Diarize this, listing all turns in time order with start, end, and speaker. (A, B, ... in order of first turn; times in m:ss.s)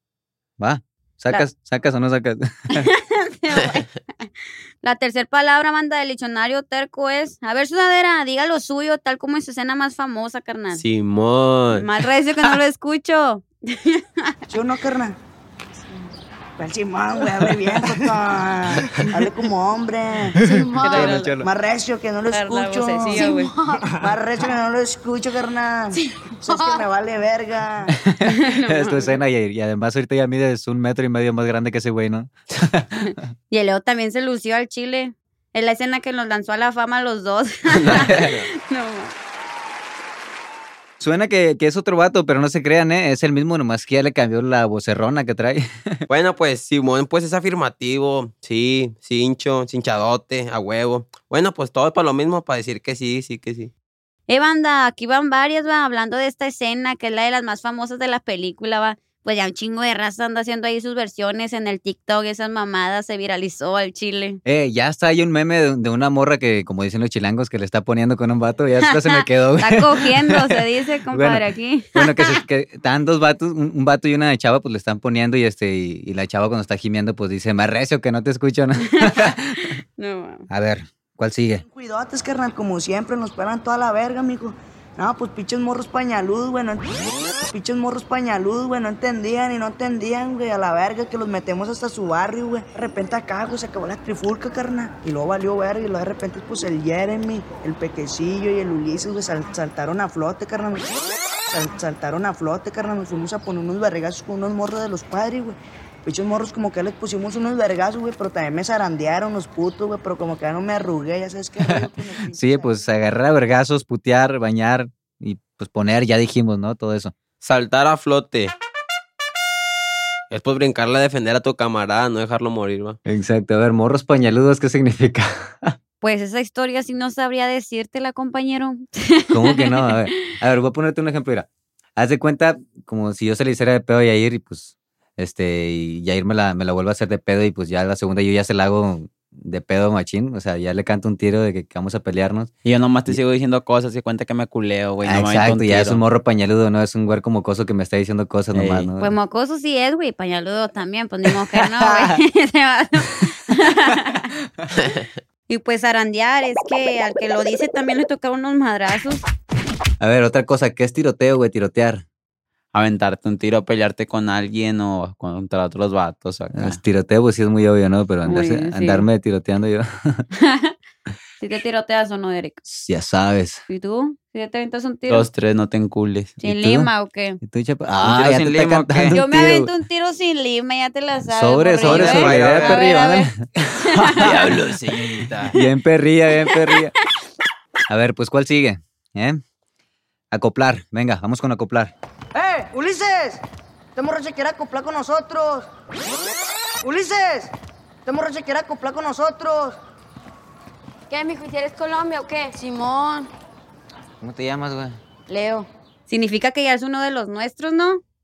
0:00.6-0:02.9 A
0:02.7-0:03.9 B
0:04.8-0:10.8 B
0:10.7-0:11.9 C
0:11.7-0:14.4 B
0:14.5-0:15.2 D
0:16.6-0:20.5 D
0:20.4-0:21.3 E
0:20.4-0:21.5 A
0:20.8-0:21.3 B
0:21.4-0:23.3 D
0:22.3-0:23.5 B
0:23.0-0:23.9 E
0:23.9-0:27.9 D
0:28.1-0:33.2 A
0:28.2-0:29.2 B
0:33.5-0:39.1 B
0:37.7-0:38.5 C
0:37.9-0:38.3 A
0:41.0-0:46.0 A
0:46.1-0:53.7 C
0:54.3-1:04.4 B
1:04.4-1:19.8 A
1:08.9-1:12.4 B
1:19.0-1:20.5 B
1:20.5-1:21.6 A
1:21.6-1:40.9 D
1:41.5-1:52.8 D
1:51.6-1:57.1 A
1:57.4-1:58.5 C
2:00.3-2:03.0 C
2:03.1-2:05.8 A
2:06.0-2:10.0 B
2:09.3-2:22.5 A
2:22.6-2:26.0 F
2:25.0-2:29.1 A
2:28.5-2:28.9 F
2:29.0-2:34.3 B
2:31.5-2:32.2 A
2:34.8-2:35.1 C
2:35.5-2:39.2 B
2:40.0-2:42.0 A
2:42.7-2:46.8 F
2:46.5-2:50.2 A
2:48.2-2:49.1 B
2:50.4-2:50.7 B
2:51.4-2:52.6 B
2:52.6-2:53.6 A
2:53.7-2:55.3 B
2:55.1-2:56.4 F
2:56.4-2:57.4 B
2:56.4-2:56.9 A
2:57.4-2:59.7 A
2:58.0-2:59.2 F
2:59.1-3:04.3 B
3:01.2-3:04.6 A
3:01.9-3:02.7 F
3:01.9-3:02.7 C
3:04.1-3:05.5 F
3:05.5-3:06.9 A
3:07.9-3:09.4 A
3:10.3-3:11.9 A
3:12.4-3:13.4 D
3:14.0-3:15.7 D
3:16.8-3:17.5 D
3:18.0-3:19.8 D
3:21.1-3:23.3 E
3:24.2-3:25.0 A
3:25.3-3:25.7 E
3:26.1-3:28.0 B